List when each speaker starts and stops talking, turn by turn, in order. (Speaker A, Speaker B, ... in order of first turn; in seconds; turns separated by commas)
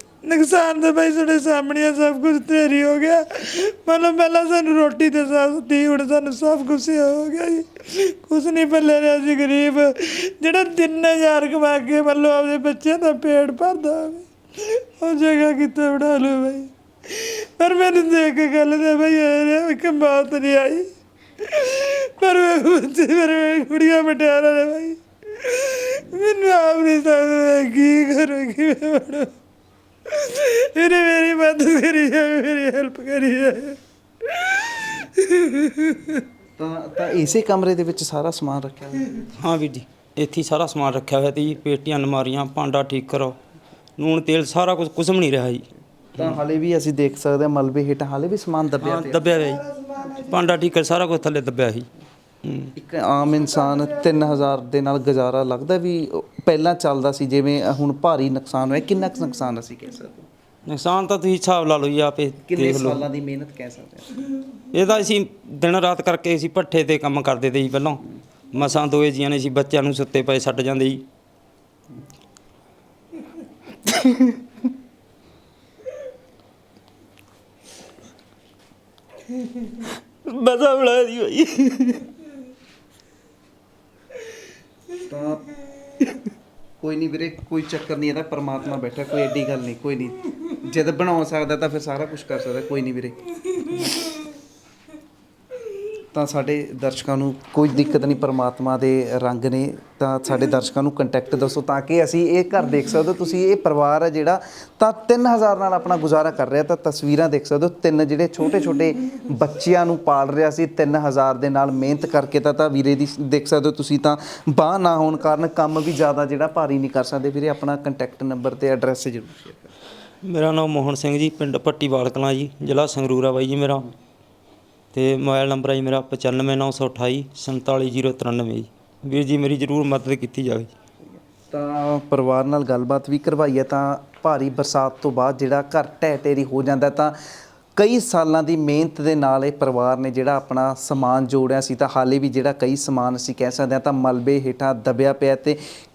Speaker A: 0.2-20.9, Speaker A: 21.4-29.3, Speaker A: 30.1-36.2, Speaker B: 36.6-39.2, Speaker C: 39.4-43.4, Speaker C: 44.0-45.6, Speaker B: 46.1-49.3, Speaker C: 48.8-51.9, Speaker C: 52.5-52.7, Speaker B: 52.8-60.3, Speaker C: 60.7-63.0, Speaker B: 62.4-64.3, Speaker C: 64.7-71.0, Speaker C: 73.9-74.3, Speaker C: 79.6-82.1, Speaker B: 85.0-85.5, Speaker B: 86.8-94.1, Speaker B: 96.1-119.7, Speaker C: 120.2-123.9, Speaker C: 124.9-130.7, Speaker B: 131.4-137.2, Speaker B: 137.8-145.6